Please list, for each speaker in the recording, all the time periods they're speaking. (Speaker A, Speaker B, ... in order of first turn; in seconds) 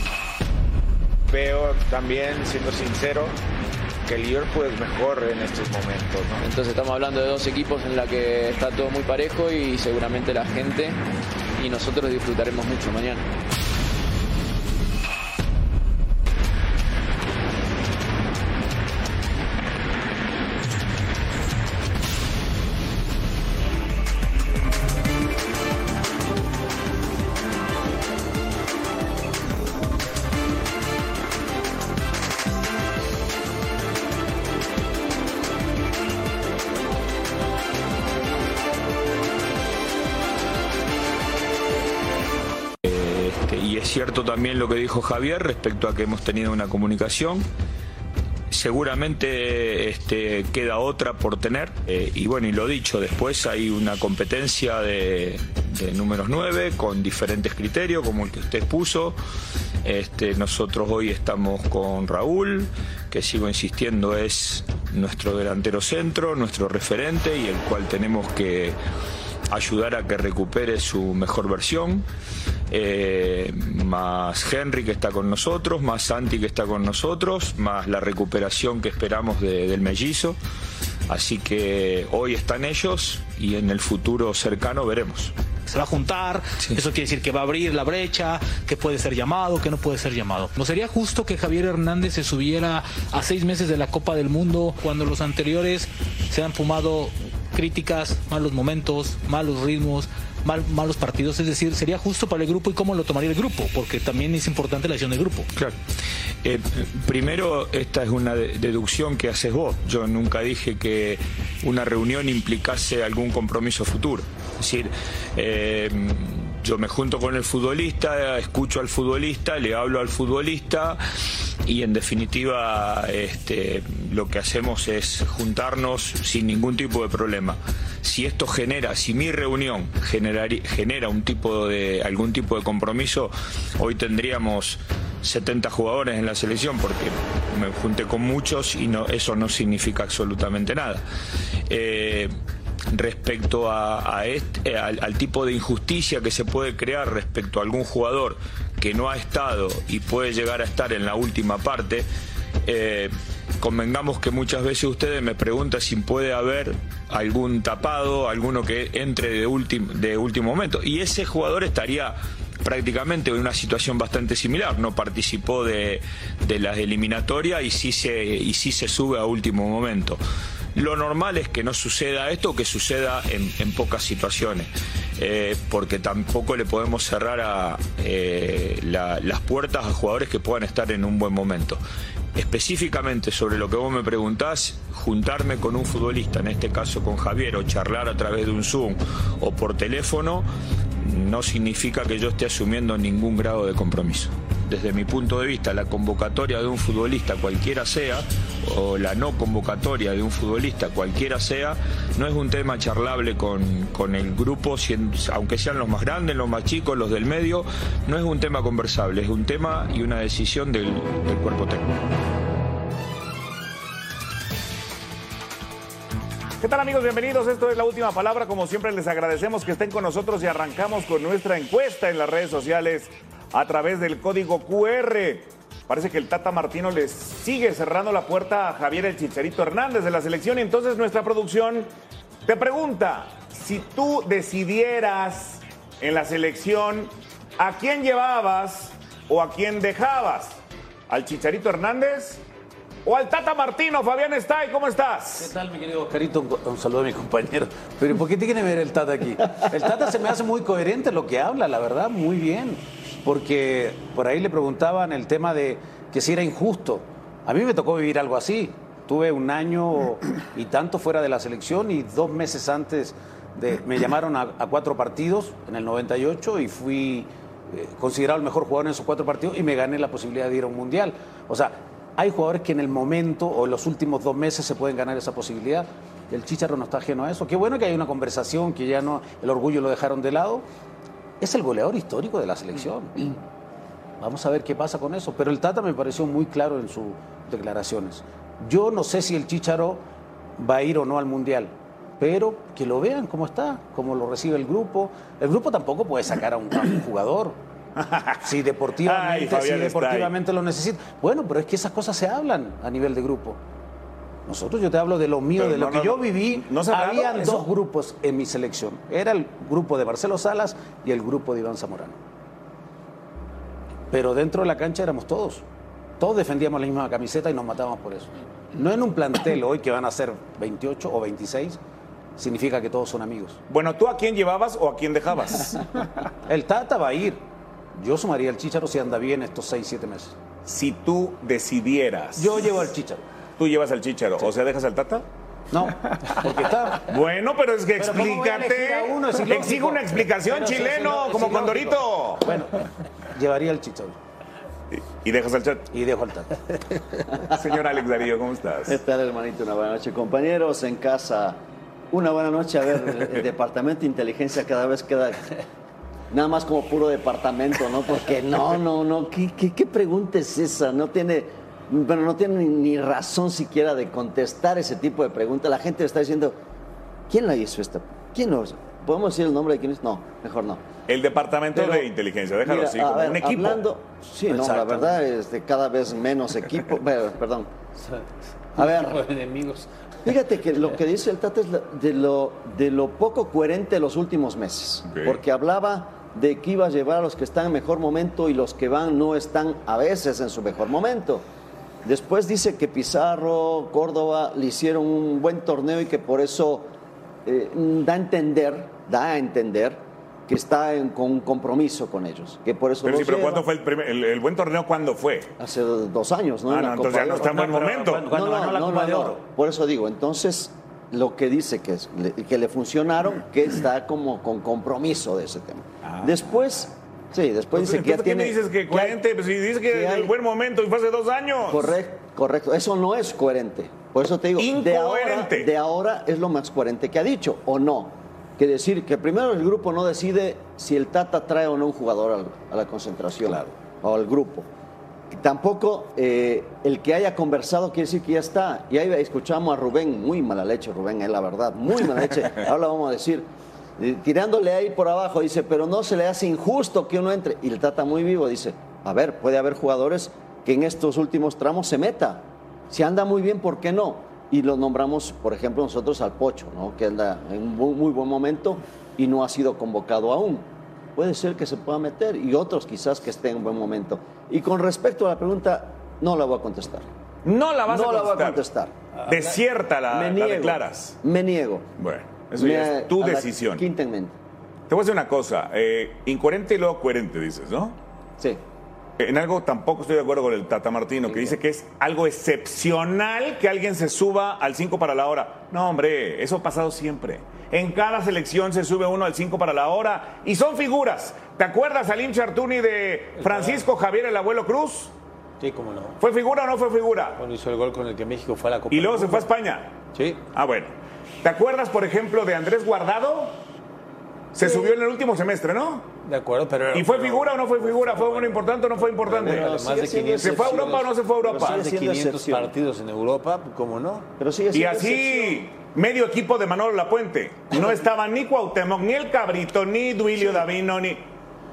Speaker A: 1.3-3.4, 4.1-6.4
Speaker B: 6.4-11.1, 11.6-13.3
Speaker C: 42.8-47.5, 48.5-59.2, 59.8-68.8, 69.5-72.1, 72.7-80.4, 81.1-85.3, 106.4-121.0, 121.7-141.0, 141.7-142.3, 142.9-152.1, 152.7-170.2, 170.8-181.8, 182.3-190.5, 191.0-211.9
Speaker D: 85.7-105.5
Speaker E: 216.6-231.9, 232.5-242.4, 243.1-245.5, 298.0-298.4, 299.1-300.3, 305.6-307.7, 323.7-325.8, 330.6-332.8, 333.6-335.2, 337.0-342.5, 344.9-345.9, 347.6-349.0, 371.1-373.9, 385.1-385.4, 403.0-405.5, 406.7-408.3, 416.0-416.5, 417.7-422.0, 424.6-425.7, 467.4-468.6, 469.3-471.2, 472.0-473.8, 474.9-478.0, 479.2-495.1, 496.2-497.4, 498.9-499.9, 500.5-503.6, 504.5-506.1, 506.9-509.7, 510.4-511.8, 514.7-521.2
Speaker F: 245.4-280.6, 281.4-283.4, 284.2-290.0, 290.6-297.6, 298.4-303.6, 304.5-312.2, 314.1-315.6, 316.2-321.8, 322.4-323.6, 326.5-327.4, 328.0-330.4, 332.4-333.2, 335.7-337.1, 338.0-344.2, 345.9-346.6, 374.5-375.2, 407.4-409.4
Speaker G: 341.4-341.8, 378.8-379.9, 469.2-469.6, 493.4-493.9, 495.6-496.2, 497.4-499.5, 500.1-500.4, 504.6-504.9, 506.2-514.3
Speaker H: 348.9-351.6, 352.1-355.5, 356.3-366.6, 367.3-370.8, 371.8-372.1, 372.6-377.7, 378.8-379.2, 380.2-391.4, 392.0-396.9, 397.4-403.7, 405.6-419.2, 419.9-420.3, 421.6-434.7, 435.3-443.5, 444.0-467.1, 467.9-468.9, 470.1-471.9, 472.6-474.3, 509.4-512.7, 514.4-515.6